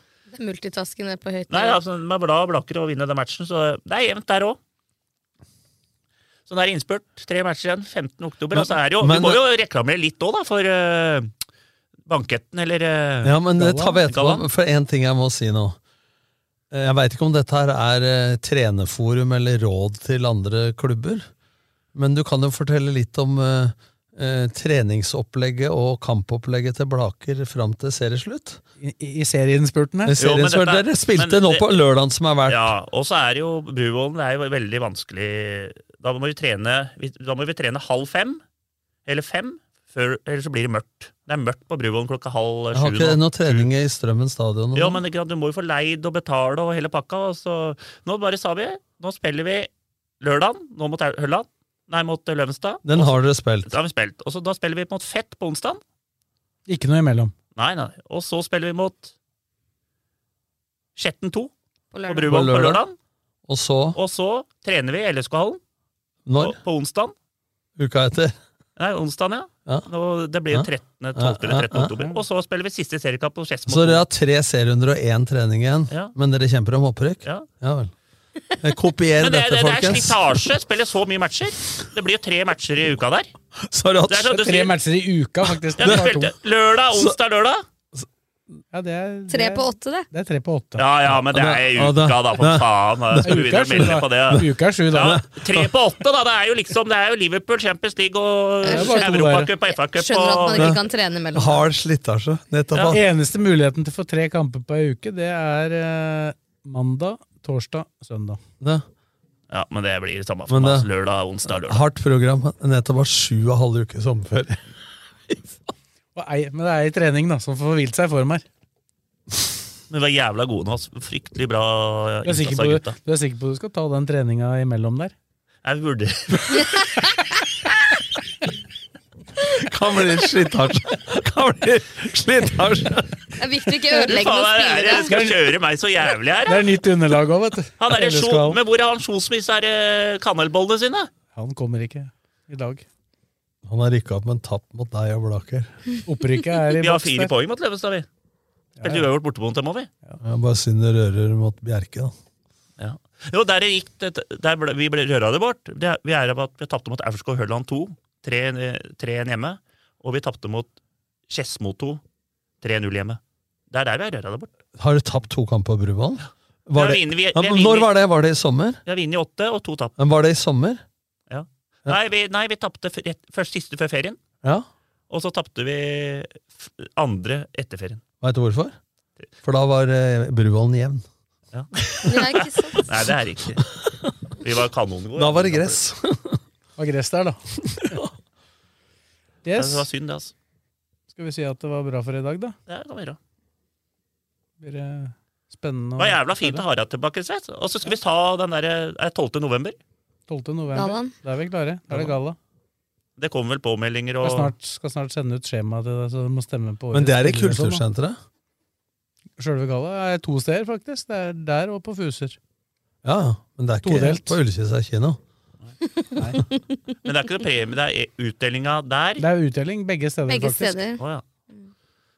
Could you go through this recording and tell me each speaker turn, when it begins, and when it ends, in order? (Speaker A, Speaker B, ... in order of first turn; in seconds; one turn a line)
Speaker A: 0.3-1.8
Speaker B: 1.5-4.6
Speaker B: 6.5-11.3
Speaker C: 8.5-9.4
Speaker B: 12.1-13.3
Speaker C: 13.2-15.8
Speaker D: 13.6-14.0
Speaker B: 14.1-14.4
Speaker C: 16.7-21.3
Speaker C: 21.9-28.6
Speaker D: 28.8-30.2
Speaker C: 30.1-32.7
Speaker B: 30.2-31.7
Speaker B: 32.5-38.4
Speaker B: 39.1-43.7
Speaker C: 42.7-45.0
Speaker B: 44.8-49.7
Speaker B: 50.2-55.8
Speaker C: 52.9-53.7
Speaker D: 56.7-57.3
Speaker B: 57.6-59.1
Speaker B: 61.0-61.5
Speaker A: 61.9-62.3
Speaker B: 62.1-63.0
Speaker C: 62.3-62.8
Speaker C: 63.5-64.0
Speaker B: 64.0-65.6
Speaker C: 66.3-66.6
Speaker B: 66.4-67.1
Speaker C: 67.8-68.3
Speaker B: 68.8-74.0
Speaker C: 70.5-72.0
Speaker C: 73.7-77.9
Speaker C: 78.6-80.5
Speaker B: 79.2-83.3
Speaker C: 83.6-84.5
Speaker B: 84.1-84.7
Speaker D: 84.3-86.3
Speaker B: 85.8-87.6
Speaker D: 88.7-90.9
Speaker A: 89.3-90.1
Speaker B: 90.8-100.8
Speaker C: 91.3-94.5
Speaker D: 93.2-95.2
Speaker C: 95.0-95.7
Speaker A: 98.6-101.6
Speaker D: 98.7-99.5
Speaker C: 100.5-100.8
Speaker C: 101.3-103.0
Speaker D: 102.9-108.4
Speaker C: 108.6-108.9
Speaker B: 109.5-111.8
Speaker C: 110.5-110.9
Speaker C: 111.5-114.6
Speaker C: 115.3-115.6
Speaker D: 116.2-118.5
Speaker B: 119.9-123.0
Speaker D: 122.2-125.1
Speaker B: 125.6-126.8
Speaker C: 129.4-133.8
Speaker A: 133.4-135.2
Speaker B: 134.0-136.6
Speaker D: 135.0-135.4
Speaker D: 136.5-138.6
Speaker B: 137.8-141.1
Speaker D: 141.3-142.8
Speaker C: 143.7-145.7
Speaker D: 146.1-147.3
Speaker B: 146.8-148.1
Speaker D: 148.8-149.1
Speaker B: 148.8-149.9
Speaker C: 150.2-152.1
Speaker B: 152.8-160.7
Speaker B: 161.3-162.0
Speaker B: 162.6-163.2
Speaker B: 163.7-164.5
Speaker C: 164.8-168.8
Speaker B: 166.8-167.9
Speaker B: 168.9-169.9
Speaker C: 170.0-170.8
Speaker B: 171.3-174.2
Speaker B: 175.1-178.0
Speaker C: 178.2-178.8
Speaker C: 179.4-181.0
Speaker B: 181.5-183.7
Speaker A: 182.0-182.8
Speaker C: 183.8-184.1
Speaker B: 184.4-185.8
Speaker C: 185.2-186.4
Speaker D: 186.8-187.4
Speaker C: 187.8-188.1
Speaker D: 189.4-189.9
Speaker B: 189.6-190.3
Speaker D: 191.1-192.6
Speaker B: 192.7-193.2
Speaker D: 194.6-196.6
Speaker B: 196.0-199.8
Speaker D: 200.3-202.4
Speaker A: 200.7-201.1
Speaker B: 203.2-204.5
Speaker D: 204.2-207.8
Speaker C: 206.9-208.2
Speaker D: 209.4-212.4
Speaker C: 213.0-215.2
Speaker D: 213.8-214.4
Speaker B: 217.0-219.2
Speaker D: 219.2-220.8
Speaker A: 220.3-221.0